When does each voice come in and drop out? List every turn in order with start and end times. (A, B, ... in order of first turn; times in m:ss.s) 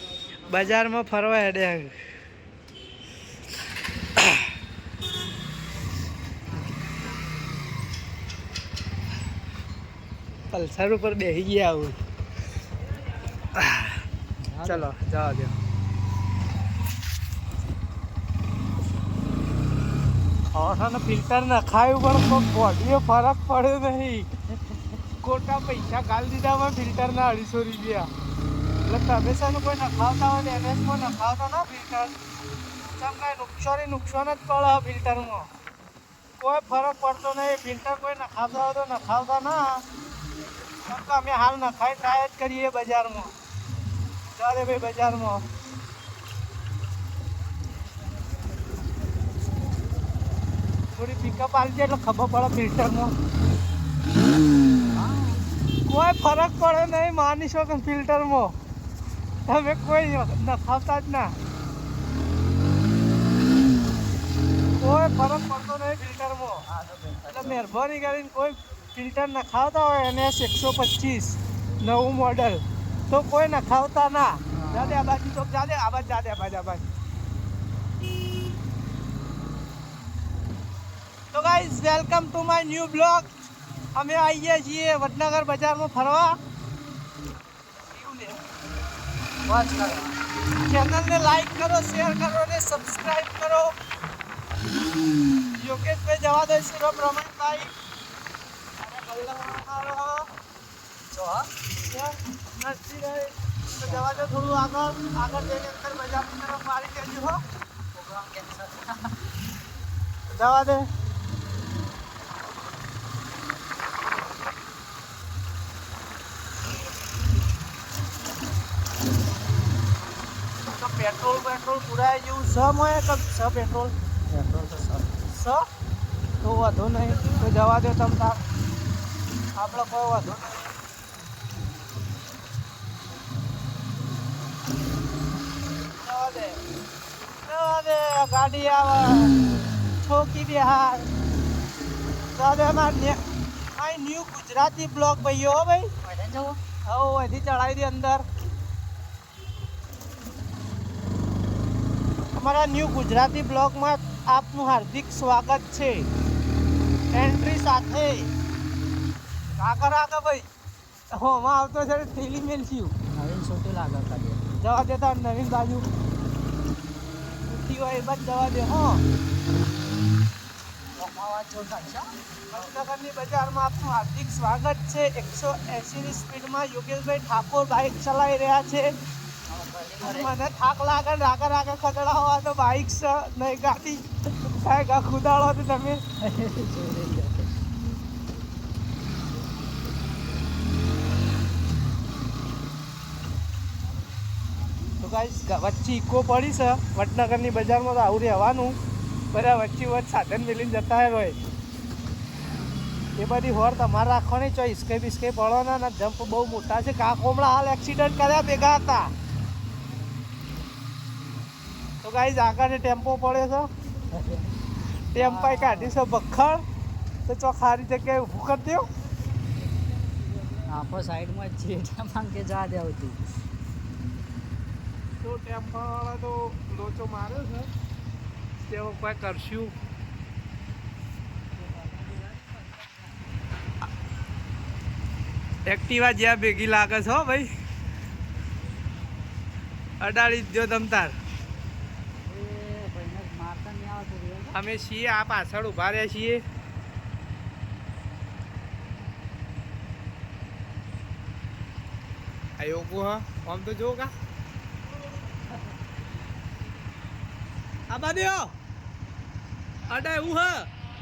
0:00.5-0:01.9 A
0:04.2-0:04.5 A
0:10.5-0:12.0 A
0:13.5-0:14.0 A
0:14.4-0:14.9 B
0:14.6-0:15.5 A
0:20.5-0:24.3 A
0:25.2-0:28.1 A
0:28.8-0:32.1 A
0:33.0-0:35.5 A
0:36.4-0:39.8 A
0:40.9-0:43.3 A
0:44.4-0:45.4 A
0:50.9-0:53.1 A
0:54.9-0:55.4 B
0:55.9-0:58.5 A
0:59.4-1:01.3 A
1:04.8-1:06.6 A
1:06.7-1:07.6 B
1:07.3-1:16.9 A
1:14.5-1:15.0 B
1:21.3-1:23.3 A
1:23.9-1:26.4 A
1:27.9-1:28.4 A
1:29.4-1:30.2 B
1:30.6-1:33.7 A
1:35.5-1:37.7 A
1:38.8-1:40.3 A
1:41.1-1:41.5 B
1:41.8-1:47.4 A
1:43.8-1:44.3 B
1:47.9-1:49.1 B
1:50.3-1:50.9 A
2:00.6-2:03.9 A
2:04.3-2:05.2 B
2:05.3-2:05.6 A
2:06.4-2:08.4 A
2:09.6-2:10.7 A
2:16.0-2:16.6 A
2:17.4-2:19.4 A
2:20.0-2:21.1 A
2:22.4-2:23.2 A
2:23.7-2:25.9 A
2:26.0-2:26.6 B
2:26.8-2:28.2 A
2:32.4-2:36.1 A
2:37.1-2:38.3 A
2:39.6-2:40.5 A
2:41.1-2:42.9 A
2:43.1-2:44.4 B
2:44.6-2:45.8 A
2:47.5-2:49.0 A
2:51.0-2:52.8 B
2:52.5-2:58.9 A
2:59.5-3:00.5 B
3:00.0-3:06.0 A
3:06.2-3:07.6 B
3:15.0-3:18.8 A
3:19.3-3:21.4 A
3:23.2-3:29.1 A
3:32.0-3:33.7 A
3:34.1-3:34.5 B
3:35.1-3:36.6 A
3:35.1-3:36.0 B
3:37.2-3:38.9 A
3:40.6-3:43.2 B
3:45.2-3:47.7 A
3:48.7-3:49.7 A
3:55.7-3:57.5 A
4:00.0-4:01.1 A
4:02.2-4:04.6 B
4:04.5-4:06.4 A
4:12.6-4:14.1 A
4:17.9-4:18.5 A
4:19.9-4:20.7 A